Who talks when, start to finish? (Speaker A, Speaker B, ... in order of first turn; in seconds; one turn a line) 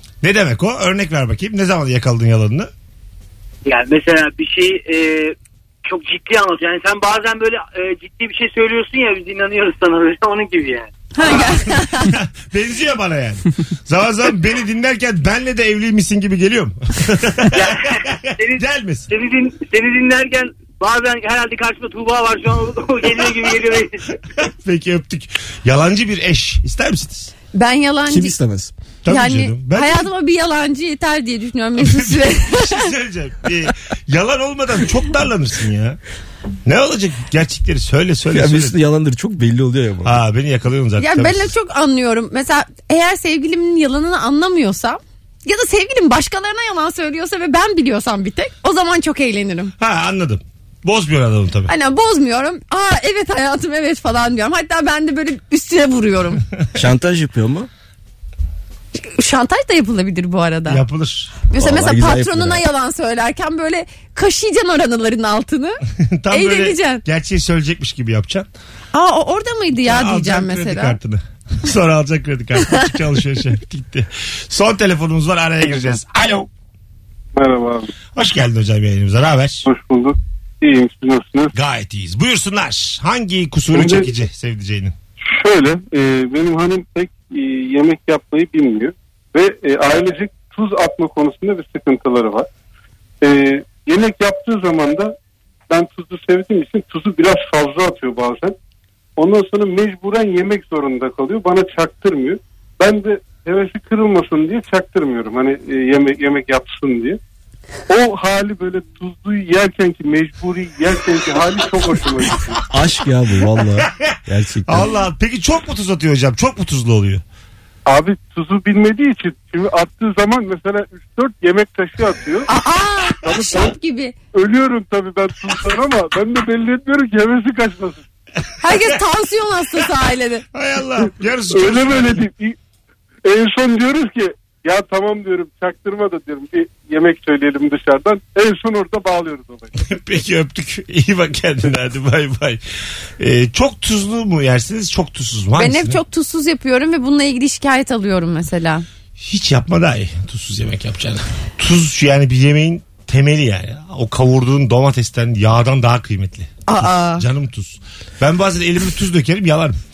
Speaker A: 0.2-2.7
Speaker B: 3.6-10.9
Speaker C: 11.1-12.1
Speaker A: 11.2-17.8
Speaker B: 17.5-24.0
Speaker A: 18.5-19.1
Speaker A: 24.3-27.3
Speaker C: 27.5-28.4
Speaker D: 28.1-28.7
Speaker A: 29.0-30.1
Speaker C: 29.1-32.9
Speaker A: 31.8-36.0
Speaker A: 36.6-38.8
Speaker D: 38.3-40.2
Speaker A: 40.0-41.5
Speaker C: 41.0-49.7
Speaker A: 49.8-51.7
Speaker C: 51.7-56.4
Speaker D: 56.7-57.7
Speaker C: 59.0-60.8
Speaker A: 60.7-61.4
Speaker C: 61.5-67.0
Speaker D: 61.5-62.6
Speaker A: 66.1-68.5
Speaker C: 68.9-71.0
Speaker A: 69.8-76.5
Speaker E: 77.3-77.9
Speaker A: 78.1-79.7
Speaker E: 79.7-81.5
Speaker A: 81.5-84.9
Speaker E: 83.7-84.1
Speaker E: 85.2-92.5
Speaker E: 93.2-95.1
Speaker E: 95.7-98.5
Speaker E: 99.2-107.2
Speaker E: 107.9-112.6
Speaker D: 112.7-114.9
Speaker A: 113.8-114.1
Speaker A: 114.7-117.2
Speaker E: 117.8-122.5
Speaker C: 122.5-124.1
Speaker E: 123.2-123.8
Speaker E: 124.3-128.0
Speaker C: 128.6-130.4
Speaker A: 130.5-132.2
Speaker E: 131.5-132.6
Speaker E: 133.2-139.7
Speaker A: 139.8-142.6
Speaker A: 143.2-146.0
Speaker C: 145.6-148.8
Speaker A: 149.2-159.8
Speaker C: 156.7-157.2